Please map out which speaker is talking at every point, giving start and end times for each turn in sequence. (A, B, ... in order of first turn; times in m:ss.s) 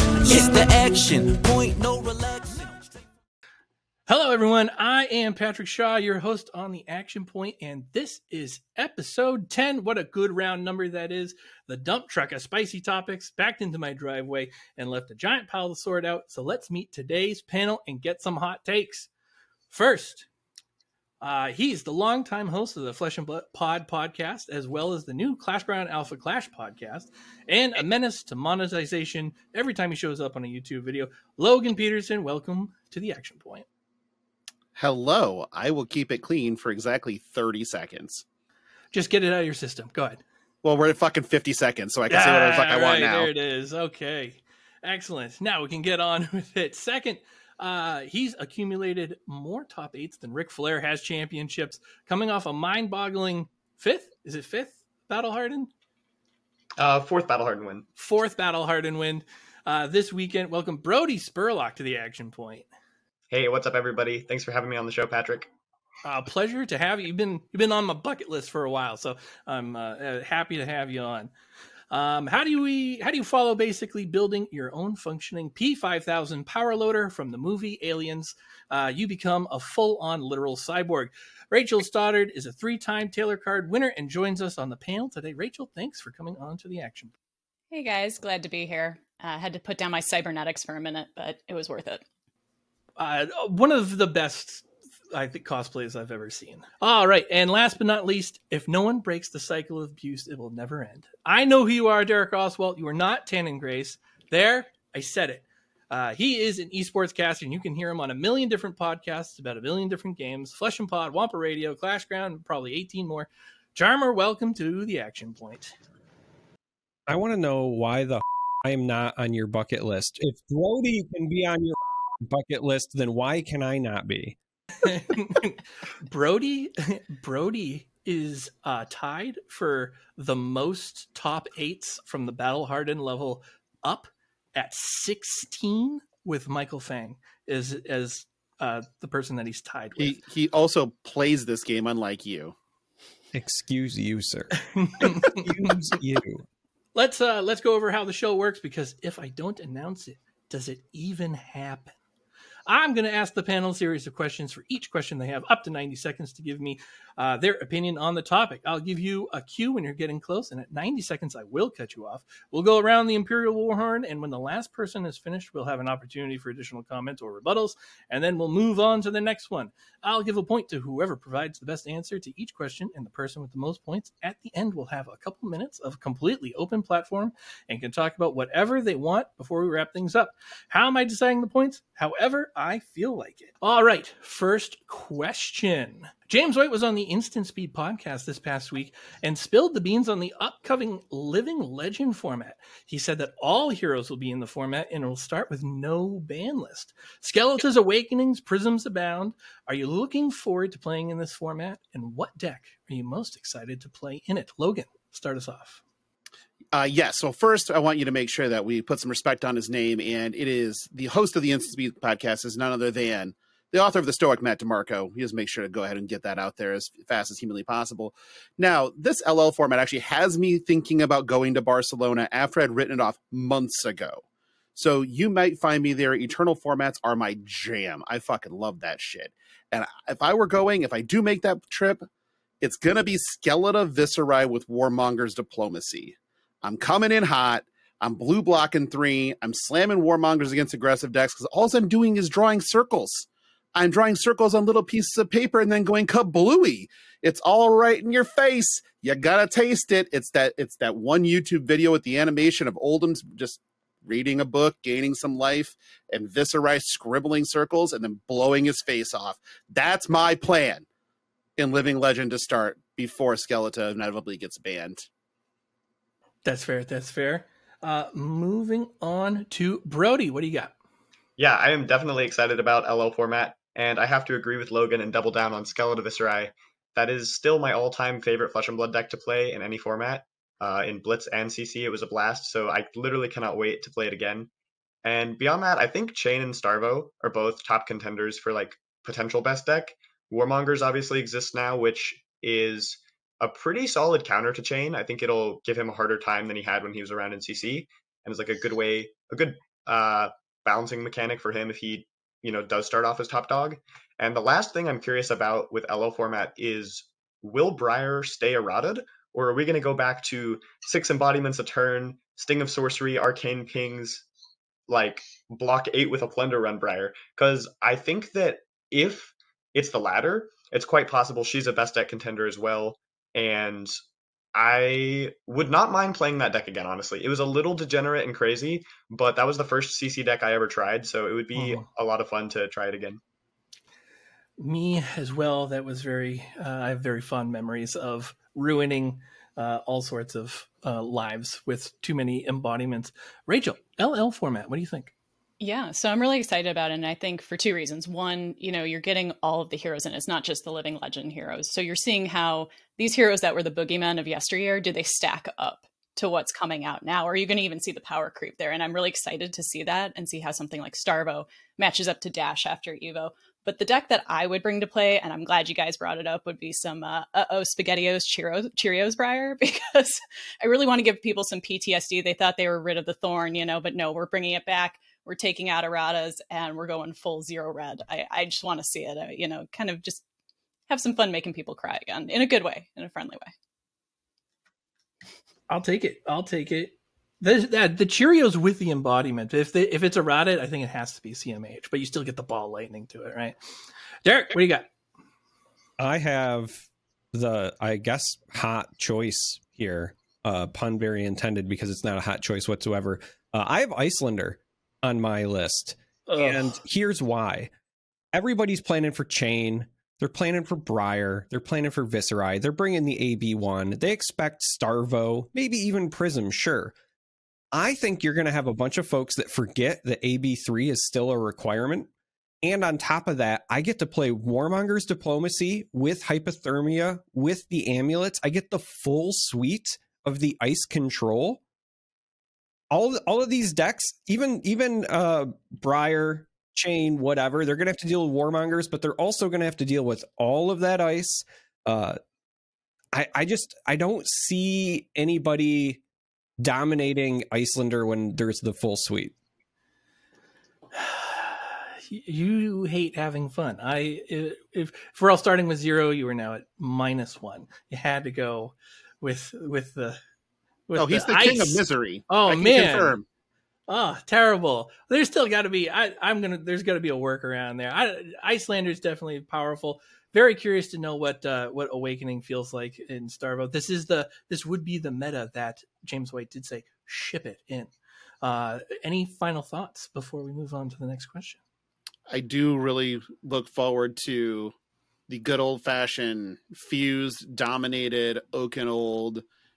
0:00.2-0:03.0 A
0:04.1-0:19.1 B
0:19.7-0:20.3 B
0:21.2-0:33.7 B
0:34.8-0:38.2 C
0:38.9-0:40.2 B
0:40.6-0:43.3 C
0:42.1-0:55.7 B
0:56.8-0:57.9 D
0:58.0-1:02.7 B
1:03.3-1:05.5 D
1:06.0-1:11.3 B
1:11.9-1:27.1 B
1:27.7-1:32.0 E
1:33.0-1:55.8 B
1:57.1-2:04.4 F
2:04.8-2:20.2 B
2:20.0-2:22.6 C
2:23.3-2:26.4 F
2:24.8-2:25.5 B
2:27.0-2:32.0 B
2:32.7-3:25.8 B
3:26.7-3:44.2 C
3:44.8-3:52.1 C
3:52.6-4:20.9 C
4:21.6-4:25.1 C
4:26.4-4:30.7 B
4:31.4-4:44.5 D
4:45.0-5:14.3 D
5:14.9-5:24.0 D
5:24.6-5:33.2 D
5:31.6-5:31.8 B
5:34.6-5:45.1 B
5:45.6-6:20.2 E
6:20.9-6:23.5 E
6:25.7-6:33.6 B
6:34.2-6:34.9 B
6:36.0-6:47.7 F
6:46.3-6:46.8 B
6:48.3-6:56.9 F
6:57.7-7:02.1 F
7:02.6-7:11.6 F
7:12.9-7:22.2 F
7:23.1-7:26.0 F
7:26.6-7:29.4 F
7:30.9-7:40.2 B
7:40.9-7:43.2 B
7:41.0-7:43.2 C
7:43.9-8:01.6 B
8:02.3-8:04.7 C
8:05.3-8:09.4 C